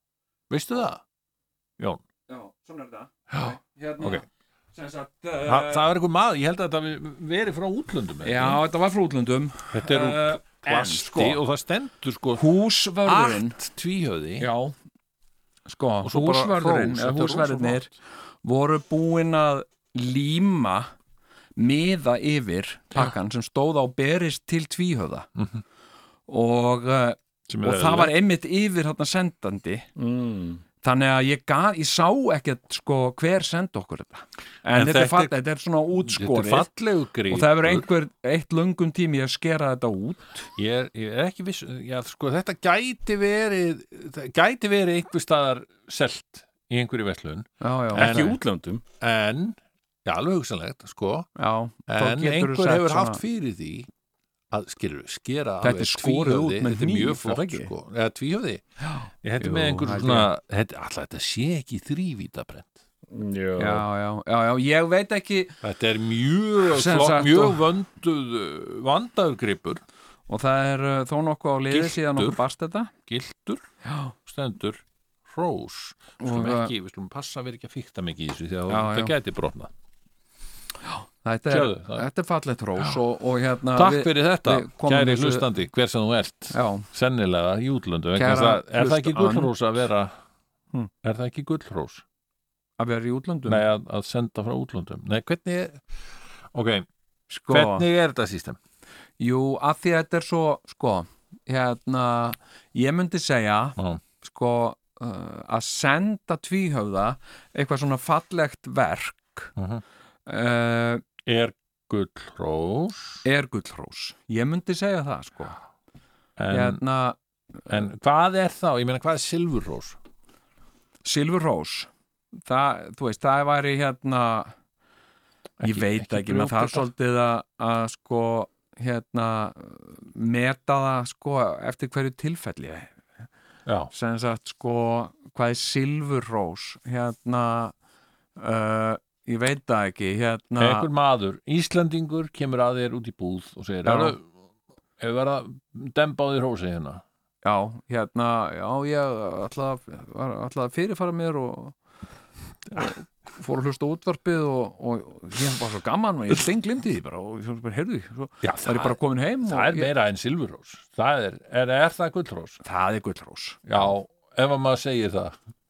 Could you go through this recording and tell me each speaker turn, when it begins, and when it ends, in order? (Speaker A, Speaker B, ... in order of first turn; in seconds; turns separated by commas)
Speaker A: 0.5-1.0, Speaker B: 2.3-5.9, Speaker A: 3.3-4.2, Speaker A: 5.5-8.6, Speaker B: 8.2-11.4, Speaker A: 9.7-12.5, Speaker B: 12.3-13.6, Speaker A: 13.0-14.5, Speaker B: 14.4-14.7, Speaker B: 15.7-17.9, Speaker A: 16.0-17.9, Speaker B: 18.4-20.9, Speaker B: 21.6-25.3, Speaker A: 25.4-25.6, Speaker B: 26.3-29.9, Speaker A: 27.5-28.1, Speaker C: 30.0-30.6, Speaker B: 30.8-36.7, Speaker A: 34.7-35.3, Speaker A: 36.0-37.9, Speaker B: 37.3-40.5, Speaker A: 40.5-48.4, Speaker B: 47.6-48.2, Speaker C: 47.9-48.8, Speaker A: 49.0-51.3, Speaker B: 51.4-53.2, Speaker A: 51.9-53.9, Speaker A: 54.5-58.6, Speaker B: 55.6-57.7, Speaker B: 58.8-60.3, Speaker A: 59.2-62.8, Speaker C: 63.1-63.8, Speaker B: 63.6-65.6, Speaker A: 65.6-69.8, Speaker B: 66.7-67.6, Speaker B: 70.3-72.9, Speaker A: 71.7-72.4, Speaker A: 73.0-73.7, Speaker B: 73.8-74.1, Speaker A: 74.2-79.7, Speaker B: 76.2-76.7, Speaker B: 78.7-79.1, Speaker B: 80.8-85.5, Speaker A: 81.5-82.0, Speaker A: 83.7-90.1, Speaker B: 86.5-86.8, Speaker B: 88.1-89.5, Speaker A: 91.0-92.0, Speaker B: 92.8-93.6, Speaker A: 93.5-95.8, Speaker A: 96.5-96.8, Speaker B: 97.3-97.8, Speaker A: 97.5-98.6, Speaker B: 99.2-109.5, Speaker A: 109.6-109.8, Speaker B: 110.3-111.0, Speaker A: 111.2-113.2, Speaker B: 113.2-115.5, Speaker A: 116.4-116.8, Speaker B: 116.5-117.2, Speaker A: 117.7-120.0, Speaker B: 121.0-121.9, Speaker B: 122.4-124.5, Speaker A: 125.6-126.8, Speaker B: 125.6-132.9, Speaker A: 133.7-133.9, Speaker B: 133.9-137.7, Speaker B: 138.4-140.9, Speaker A: 140.6-144.2, Speaker B: 143.8-144.2, Speaker A: 145.0-147.0, Speaker B: 147.4-151.8, Speaker B: 152.7-159.9, Speaker A: 158.4-162.6, Speaker B: 162.6-163.9, Speaker A: 163.7-165.4